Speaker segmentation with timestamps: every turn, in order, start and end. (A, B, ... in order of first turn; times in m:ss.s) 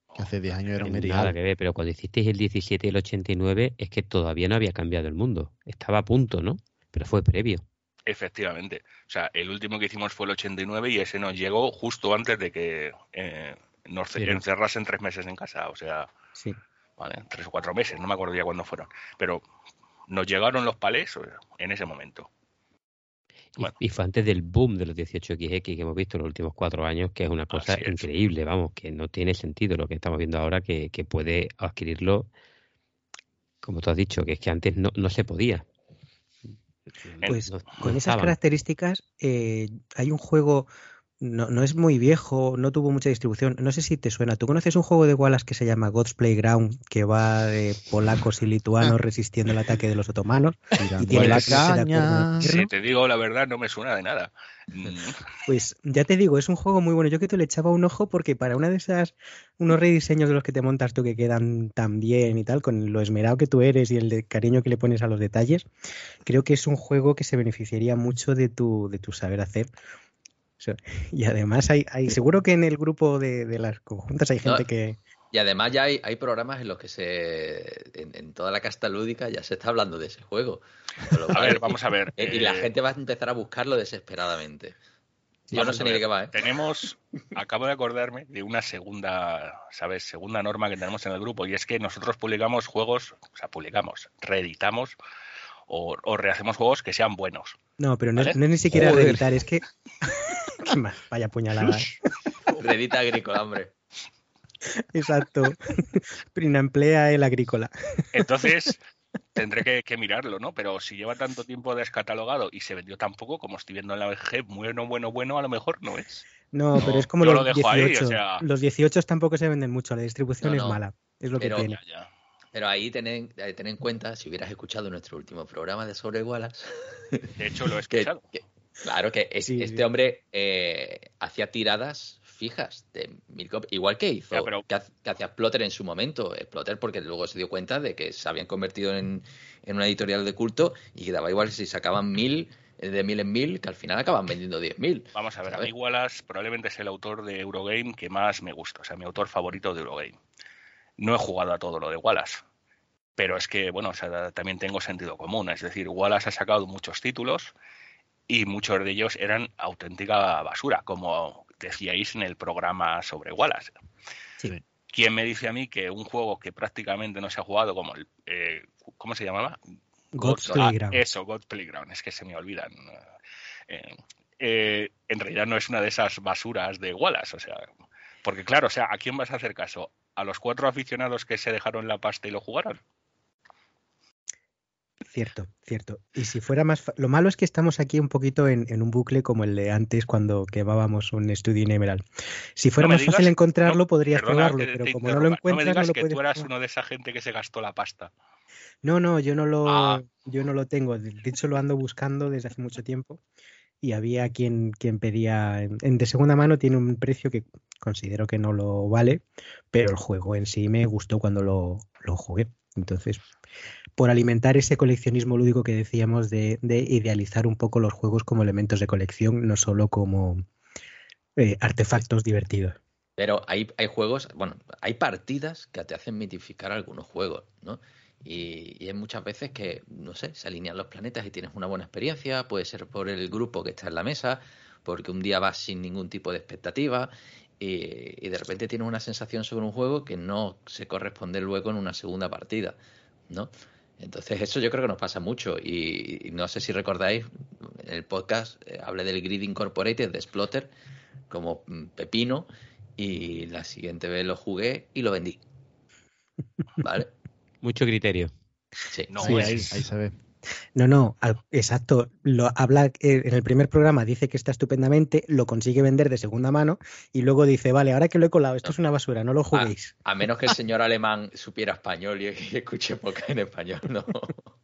0:00.1-0:00.9 A
0:00.2-0:01.4 B
0:00.8-0:07.6 C
0:08.1-0:16.1 A
0:14.2-0:14.4 C
0:17.0-0:19.4 A
0:20.1-0:22.3 A
0:23.6-0:32.3 C
0:27.5-0:28.1 A
0:33.6-0:35.6 C
0:36.9-0:38.4 C
0:37.3-0:52.7 D
0:50.8-0:52.5 B
0:51.2-0:51.5 C
0:52.4-0:55.3 A
0:55.5-1:05.7 D
1:06.2-1:09.7 D
1:10.6-1:15.0 D
1:15.3-1:24.8 E
1:21.3-1:22.7 A
1:25.5-1:25.8 D
1:25.5-1:26.5 E
1:25.5-1:35.0 A
1:35.7-1:37.6 A
1:37.8-1:42.0 D
1:38.2-1:39.1 A
1:42.5-1:43.7 E
1:44.8-1:47.7 D
1:48.1-1:48.8 A
1:49.4-1:56.2 A
1:56.5-2:01.8 D
1:56.8-1:58.4 A
2:00.4-2:00.8 E
2:01.4-2:01.7 E
2:01.8-2:02.1 A
2:02.5-2:07.3 E
2:07.4-2:08.2 A
2:07.9-2:25.7 E
2:09.4-2:09.8 D
2:14.3-2:14.6 A
2:25.2-2:30.2 A
2:31.0-2:32.4 A
2:33.2-2:37.5 A
2:38.3-2:43.7 A
2:44.9-2:49.6 A
2:50.1-2:51.0 D
2:50.2-2:53.0 A
2:53.7-2:57.7 A
2:58.2-3:02.8 A
3:05.1-3:12.0 D
3:12.6-3:16.5 D
3:12.8-3:18.1 A
3:18.8-3:23.2 D
3:19.6-3:20.0 A
3:23.8-3:33.2 D
3:34.0-3:40.4 D
3:41.4-3:42.8 D
3:43.2-4:02.8 E
4:03.3-4:10.7 E
4:11.3-4:15.4 E
4:16.8-4:17.1 E
4:17.6-4:18.3 C
4:18.9-4:19.5 E
4:19.1-4:19.8 A
4:19.2-4:20.2 B
4:20.8-4:29.9 D
4:29.5-4:34.5 E